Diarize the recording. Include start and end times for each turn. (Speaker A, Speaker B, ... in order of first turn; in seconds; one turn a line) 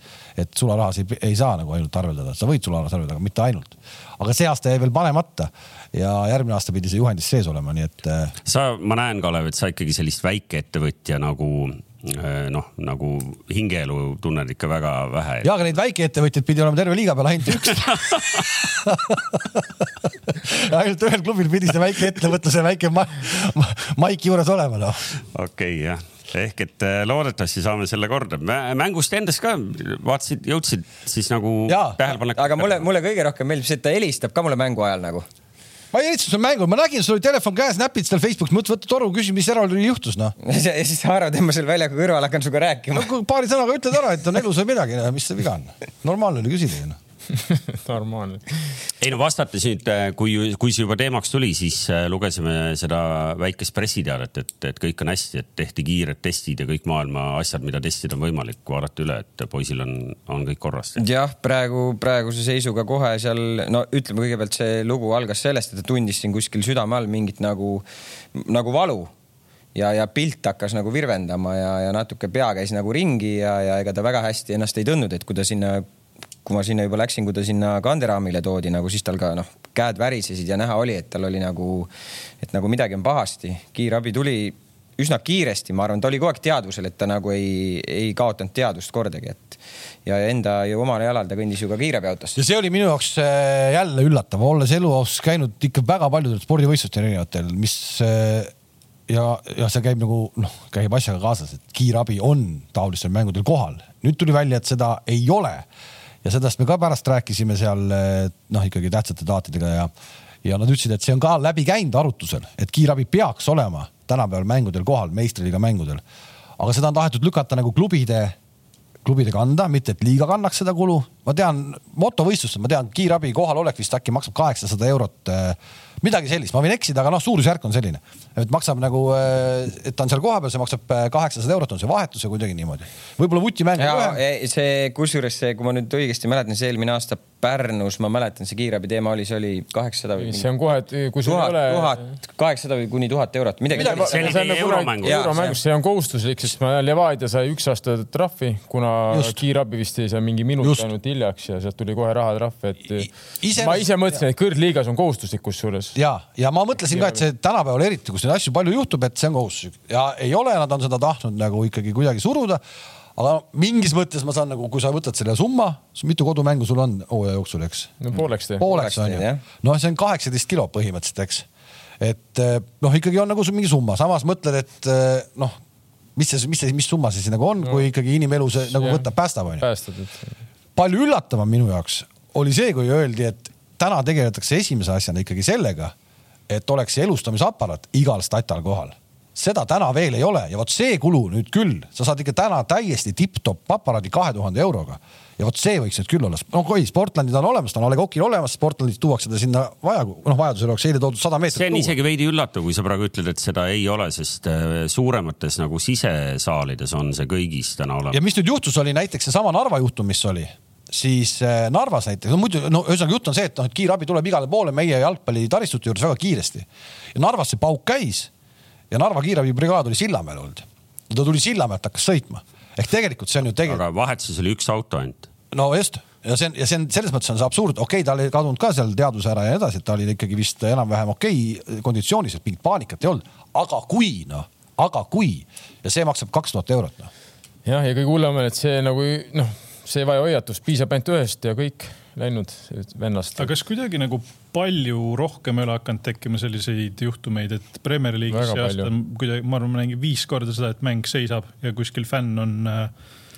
Speaker A: 0.4-8.3
Speaker B: 8.5-15.5
Speaker A: 15.4-25.1
Speaker B: 17.9-18.3
Speaker B: 25.3-32.9
Speaker A: 31.7-32.0
Speaker C: 32.4-35.3
Speaker A: 35.9-40.4
Speaker C: 40.4-43.1
Speaker A: 43.0-47.0
Speaker D: 47.4-48.8
Speaker B: 49.0-61.0
Speaker C: 61.0-69.1
Speaker C: 69.8-75.8
Speaker C: 76.5-81.9
Speaker C: 82.4-92.4
Speaker A: 92.4-98.5
Speaker A: 99.1-105.7
Speaker A: 106.2-109.9
Speaker A: 110.4-116.0
Speaker A: 116.6-118.3
Speaker A: 119.0-134.2
Speaker C: 133.8-140.5
Speaker D: 140.2-142.0
Speaker C: 141.2-144.4
Speaker D: 143.8-156.0
Speaker B: 143.8-145.3
Speaker C: 145.0-145.6
Speaker A: 149.1-149.4
Speaker A: 150.6-150.9
Speaker A: 153.4-154.2
Speaker A: 156.0-162.6
Speaker D: 156.9-157.2
Speaker A: 163.2-168.0
Speaker D: 168.0-168.7
Speaker A: 168.6-171.5
Speaker C: 168.6-169.4
Speaker A: 172.0-175.6
Speaker A: 176.2-179.7
Speaker D: 178.7-179.1
Speaker D: 179.6-180.4
Speaker A: 180.8-185.9
Speaker A: 186.5-201.9
Speaker B: 201.5-208.2
Speaker A: 208.1-218.3
Speaker A: 218.9-223.8
Speaker B: 223.7-225.3
Speaker A: 225.5-237.1
Speaker D: 237.7-243.5
Speaker E: 243.4-252.9
Speaker D: 248.3-248.9